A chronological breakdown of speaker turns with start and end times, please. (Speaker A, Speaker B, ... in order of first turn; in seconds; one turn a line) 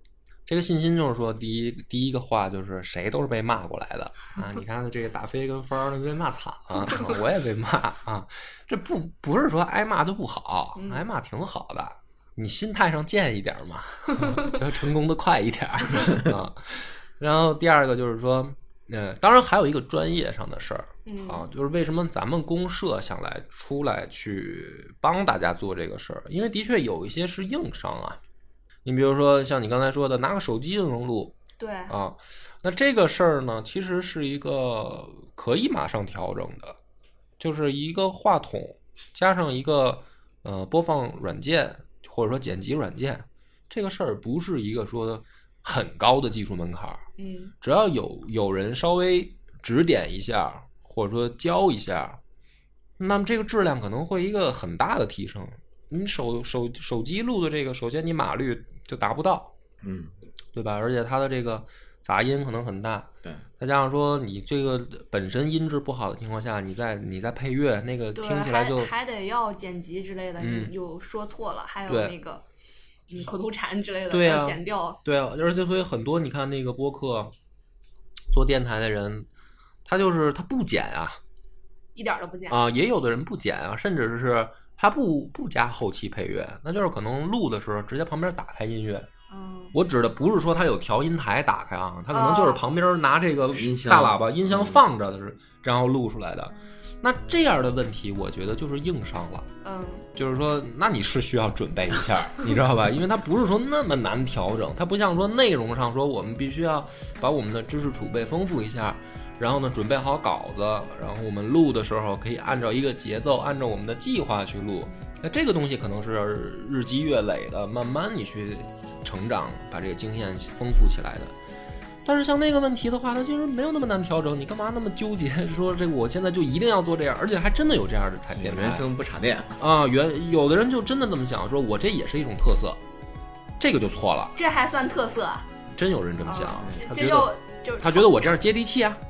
Speaker A: 0.5-28.2
Speaker B: 10.8-11.0
Speaker B: 21.1-21.5
Speaker A: 28.9-31.4
Speaker B: 31.6-31.9
Speaker A: 31.9-36.8
Speaker A: 37.4-47.0
Speaker B: 47.2-47.5
Speaker A: 47.6-52.2
Speaker A: 53.0-59.5
Speaker C: 59.8-60.1
Speaker A: 60.5-68.9
Speaker B: 68.2-72.4
Speaker A: 70.4-70.7
Speaker A: 71.9-72.2
Speaker B: 73.1-75.0
Speaker A: 74.1-77.3
Speaker A: 78.3-79.3
Speaker A: 79.9-81.2
Speaker B: 82.0-82.6
Speaker A: 82.5-89.1
Speaker B: 89.3-89.8
Speaker A: 89.7-99.5
Speaker B: 92.1-92.6
Speaker C: 93.5-94.8
Speaker B: 99.6-100.1
Speaker A: 100.2-121.3
Speaker A: 122.0-128.9
Speaker C: 128.3-129.6
Speaker A: 129.6-132.8
Speaker A: 133.6-134.4
Speaker B: 134.4-135.5
Speaker A: 135.7-139.0
Speaker B: 136.2-138.3
Speaker C: 136.6-137.1